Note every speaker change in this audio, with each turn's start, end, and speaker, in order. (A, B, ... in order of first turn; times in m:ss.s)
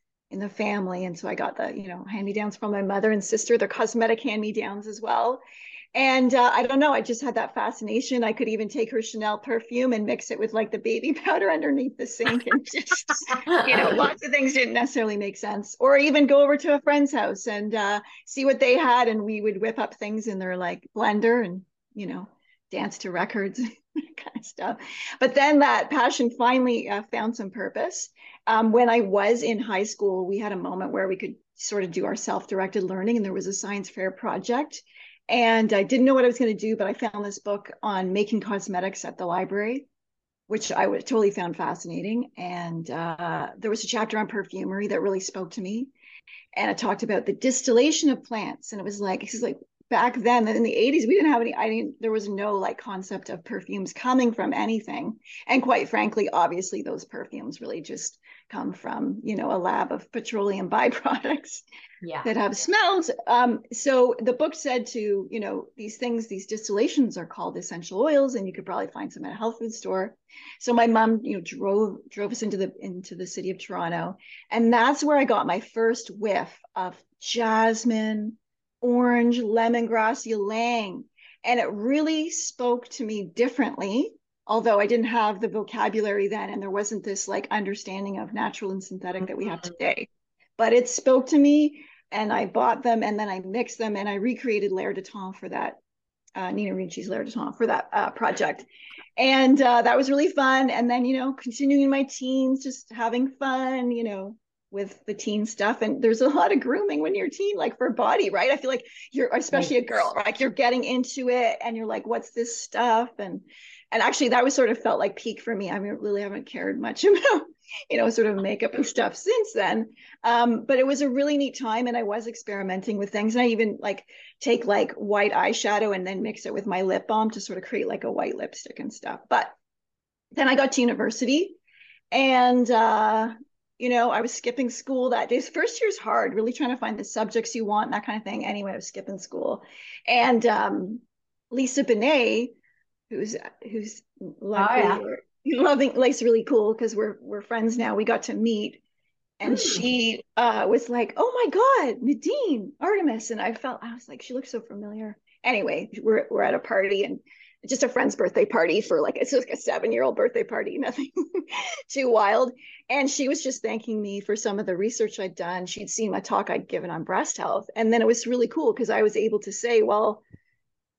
0:00.3-0:05.4 A
0:05.9-0:39.9 A
0:40.5-0:45.9 A
0:46.5-1:01.6 A
1:02.0-1:02.3 B
1:02.2-1:35.8 A
1:29.2-1:29.7 B
1:36.4-1:38.7 A
1:39.2-2:09.5 A
1:49.5-1:49.8 B
2:10.3-2:11.6 A
2:12.1-2:22.5 A
2:23.1-2:28.8 A
2:24.5-2:25.0 B
2:29.4-2:50.2 A
2:29.4-2:29.8 B